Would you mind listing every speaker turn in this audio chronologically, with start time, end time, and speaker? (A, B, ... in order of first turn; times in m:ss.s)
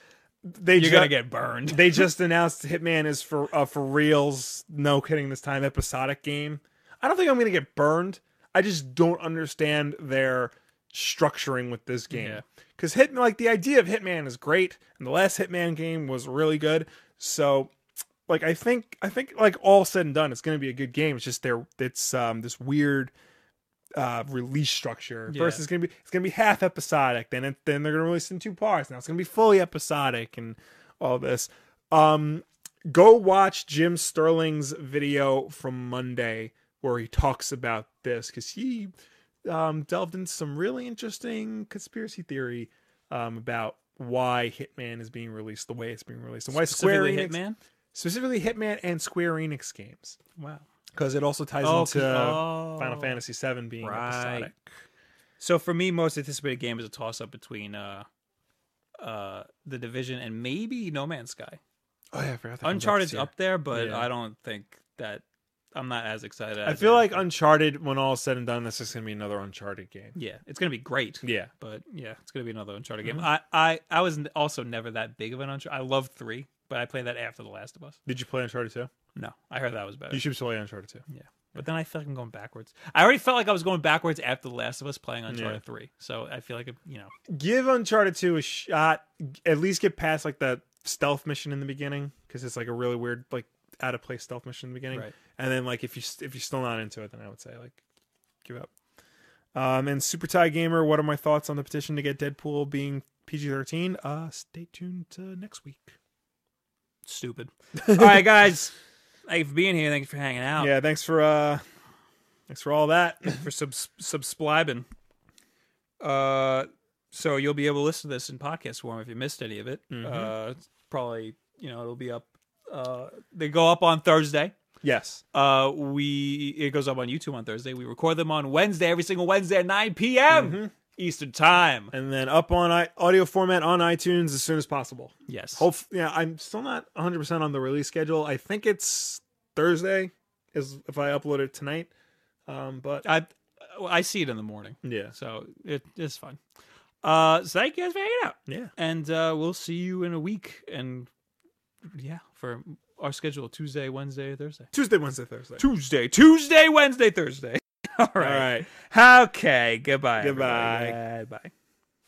0:00.4-0:17.7 A
0:00.8-0:02.1 B
0:12.1-0:12.4 B
0:18.3-0:23.1 A
0:24.0-0:38.9 A
0:25.3-0:25.6 B
0:39.5-0:47.4 A
0:46.5-0:47.6 B
0:47.9-0:50.2 A
0:50.4-0:50.7 B
0:50.9-0:54.7 A
0:51.6-0:53.2 B
0:53.8-0:54.5 B
0:55.4-0:58.1 B
0:59.0-1:01.6 B
1:02.1-1:04.1 A
1:02.6-1:07.3 B
1:06.6-1:10.2 A
1:10.2-1:18.0 B
1:11.2-1:11.5 A
1:18.1-1:18.9 A
1:19.2-1:20.2 B
1:20.1-1:21.0 A
1:21.1-1:27.1 B
1:25.3-1:25.6 A
1:27.3-1:37.8 A
1:38.4-1:38.7 A
1:39.6-1:46.0 A
1:47.0-1:48.8 B
1:47.8-1:48.2 A
1:49.3-1:50.7 B
1:50.6-1:51.6 A
1:52.5-1:53.4 A
1:53.3-1:54.9 B
1:56.0-2:04.5 B
1:59.9-2:00.3 A
2:04.8-2:05.2 A
2:05.3-2:11.9 B
2:10.3-2:10.7 A
2:11.9-2:21.9 A
2:15.3-2:15.7 B
2:22.5-2:23.1 A
2:23.0-2:26.4 B
2:24.8-2:25.1 A
2:27.0-2:31.1 B
2:28.5-2:28.7 A
2:31.9-2:34.7 B
2:34.7-2:35.6 A
2:35.6-2:41.5 B
2:38.2-2:38.7 A
2:40.2-2:41.0 A